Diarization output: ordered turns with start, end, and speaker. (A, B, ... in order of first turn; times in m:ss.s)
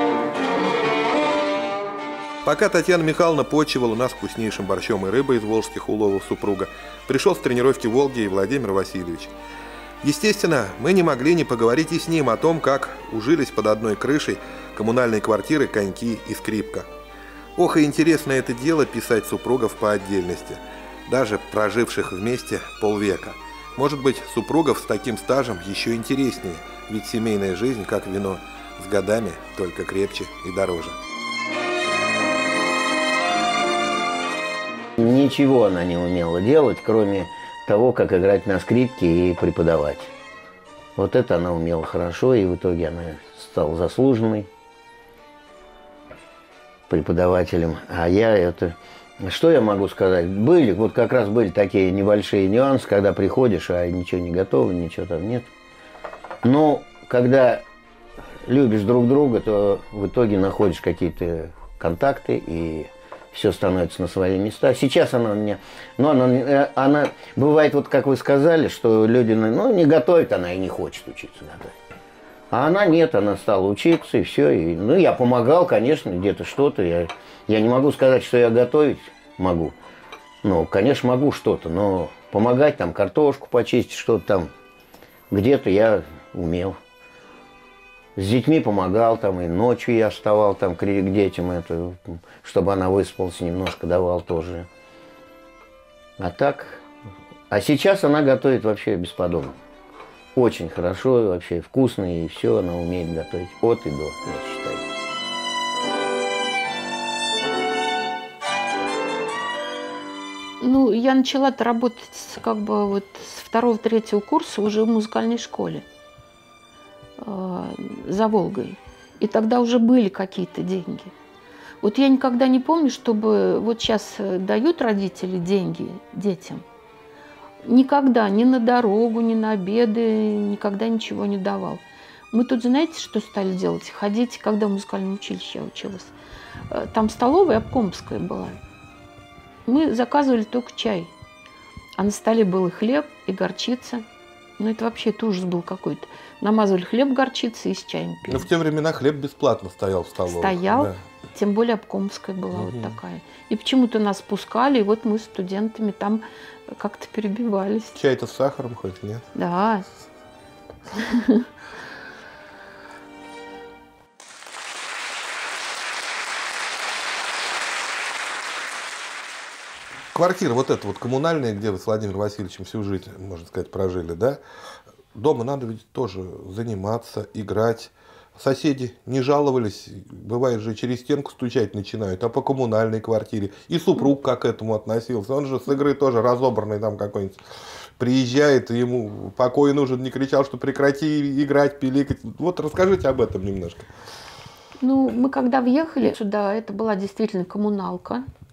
0:02.4-0:09.3 A
0:10.0-0:16.9 A
0:17.6-0:31.0 A
0:35.0-0:40.1 B
0:41.0-0:44.5 B
0:46.9-0:55.5 B
0:56.4-0:57.6 B
0:58.4-1:11.7 B
1:12.5-1:19.8 B
1:20.4-1:24.5 B
1:25.3-1:26.8 B
1:28.2-1:34.7 B
1:36.2-1:36.8 B
1:37.5-1:39.6 B
1:40.4-1:44.9 B
1:50.6-1:55.8 C
1:57.2-2:01.1 C
2:01.8-2:06.6 C
2:07.6-2:16.1 C
2:16.7-2:18.6 C
2:19.7-2:21.1 C
2:22.0-2:24.0 C
2:24.6-2:28.5 C
2:28.3-2:31.0 A
2:30.3-2:38.0 C
2:32.6-2:33.0 A
2:38.0-2:39.3 A
2:39.4-2:39.9 C
2:41.0-2:41.4 C
2:50.1-2:54.4 A
2:55.2-3:07.4 A
3:08.0-3:13.9 A
3:14.8-3:18.3 C